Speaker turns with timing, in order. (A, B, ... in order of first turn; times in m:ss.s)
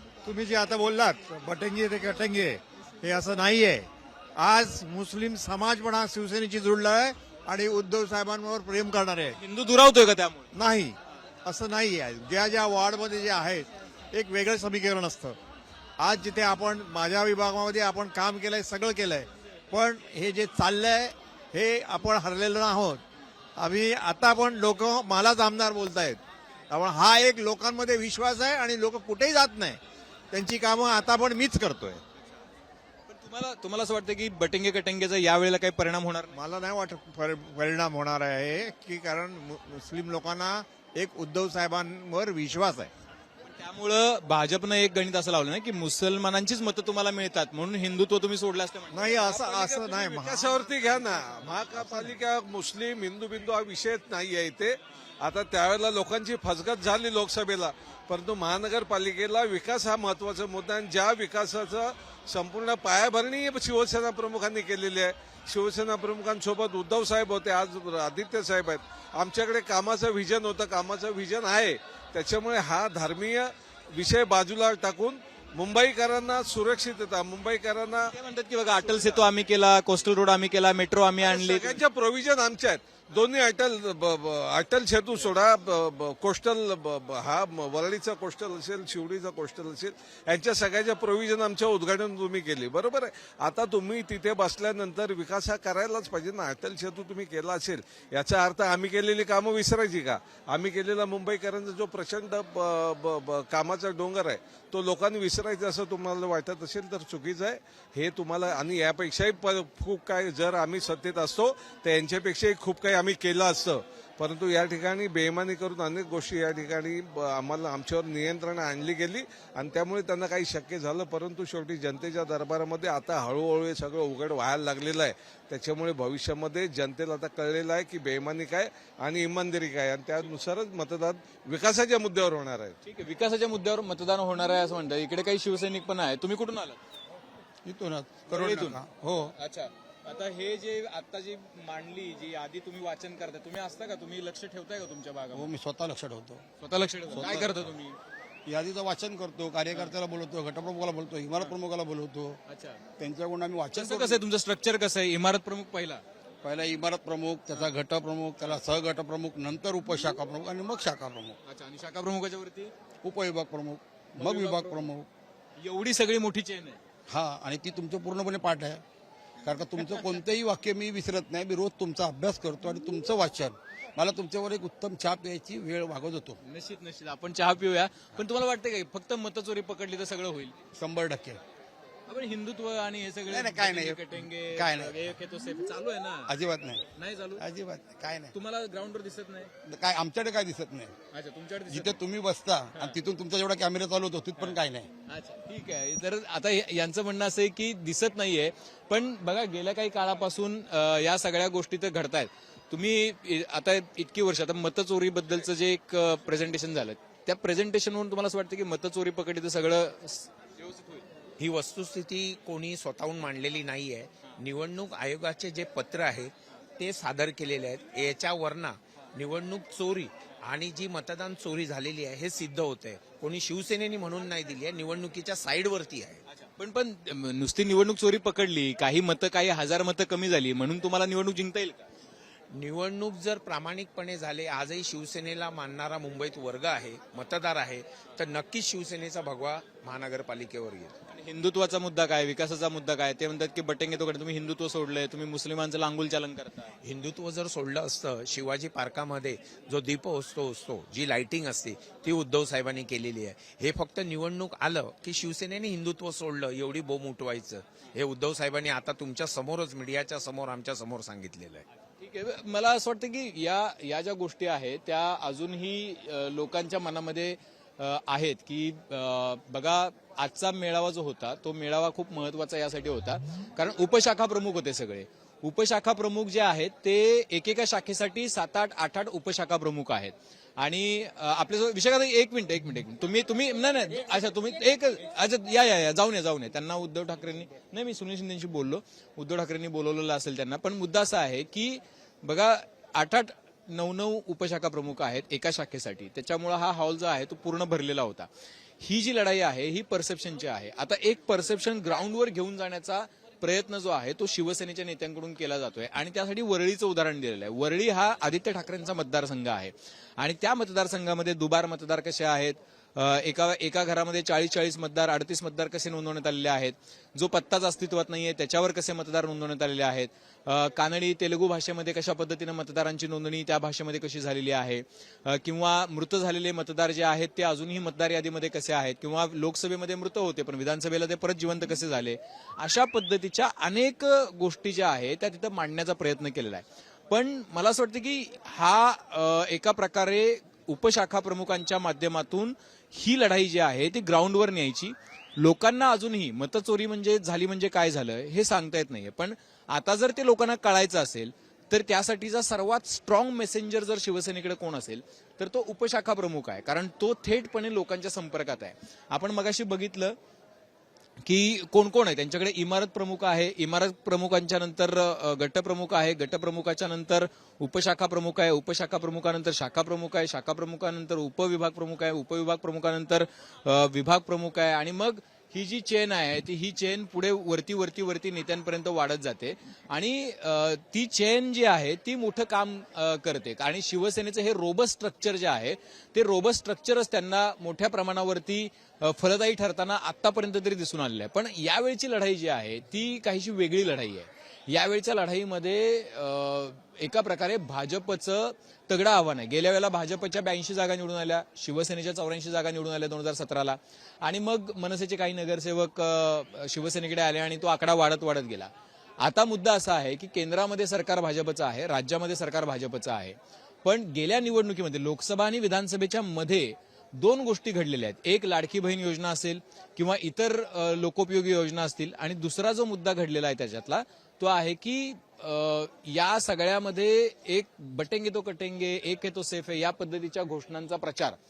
0:00.2-0:09.4 A
0:09.4-0:10.5 B
0:10.5-0:15.4 A
0:16.0-0:23.0 A
0:23.6-0:29.8 A
0:30.3-0:32.0 A
0:33.1-0:36.3 B
0:36.3-0:42.9 A
0:43.4-0:51.0 B
0:48.9-0:50.4 A
0:50.4-1:17.9 C
1:18.0-1:21.8 B
1:21.2-2:12.7 C
2:12.8-2:16.8 B
2:17.6-2:19.3 D
2:18.3-2:18.8 B
2:19.4-2:25.5 B
2:25.3-2:26.4 D
2:26.6-2:28.0 B
2:27.1-2:27.7 D
2:28.4-2:32.4 D
2:32.5-2:32.8 B
2:33.0-2:34.2 D
2:33.8-2:36.0 B
2:36.4-2:41.4 D
2:41.4-2:42.7 B
2:43.0-2:45.1 D
2:44.2-2:44.9 B
2:45.6-2:46.8 B
2:47.1-2:48.8 D
2:49.4-2:56.4 D
2:56.4-3:00.6 B
3:00.8-3:01.4 D
3:02.1-3:06.3 B
3:03.3-3:05.0 D
3:06.3-3:06.8 D
3:06.9-3:07.4 B
3:07.4-3:08.3 D
3:08.3-3:09.5 B
3:09.6-3:10.9 D
3:11.1-3:12.0 B
3:11.7-3:14.9 D
3:15.1-3:31.0 B
3:31.4-3:46.2 E
3:46.6-3:51.8 B
3:52.5-4:00.9 E
4:01.1-4:06.7 B
4:06.8-4:21.6 E
4:22.0-4:58.3 B
4:58.8-6:00.2 B
6:01.2-7:11.4 B